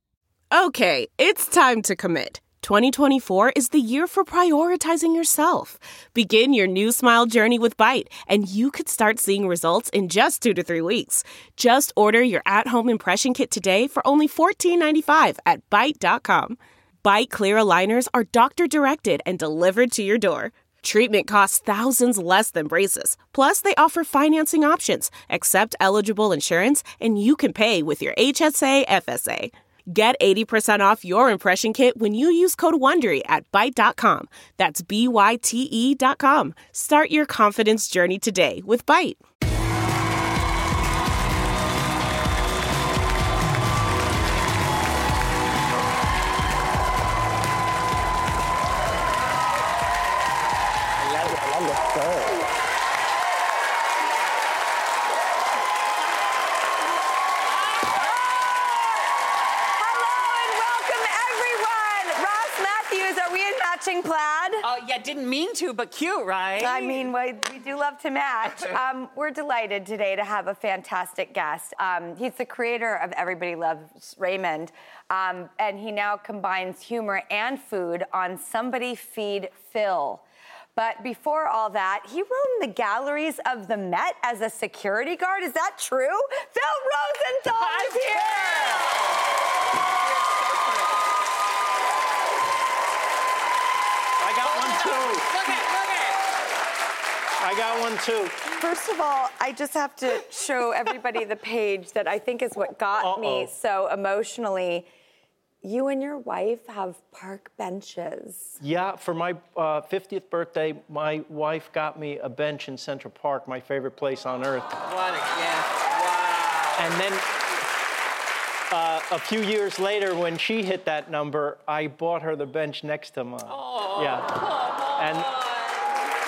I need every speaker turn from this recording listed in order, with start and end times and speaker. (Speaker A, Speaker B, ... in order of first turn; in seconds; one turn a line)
Speaker A: 0.5-39.2
Speaker B: 57.7-58.6
Speaker C: 59.7-64.6
Speaker B: 64.6-67.1
Speaker C: 66.6-80.2
Speaker B: 68.5-68.8
Speaker C: 80.8-88.8
Speaker B: 87.6-89.2
Speaker B: 90.0-91.1
Speaker D: 94.2-95.5
Speaker B: 94.4-96.2
Speaker D: 97.4-98.4
Speaker C: 98.6-104.9
Speaker D: 103.0-103.5
Speaker C: 105.6-108.6
Speaker D: 108.6-114.7
Speaker B: 114.9-116.8
Speaker D: 116.8-117.3
Speaker D: 118.7-124.4
Speaker B: 123.5-125.9
Speaker D: 125.0-125.3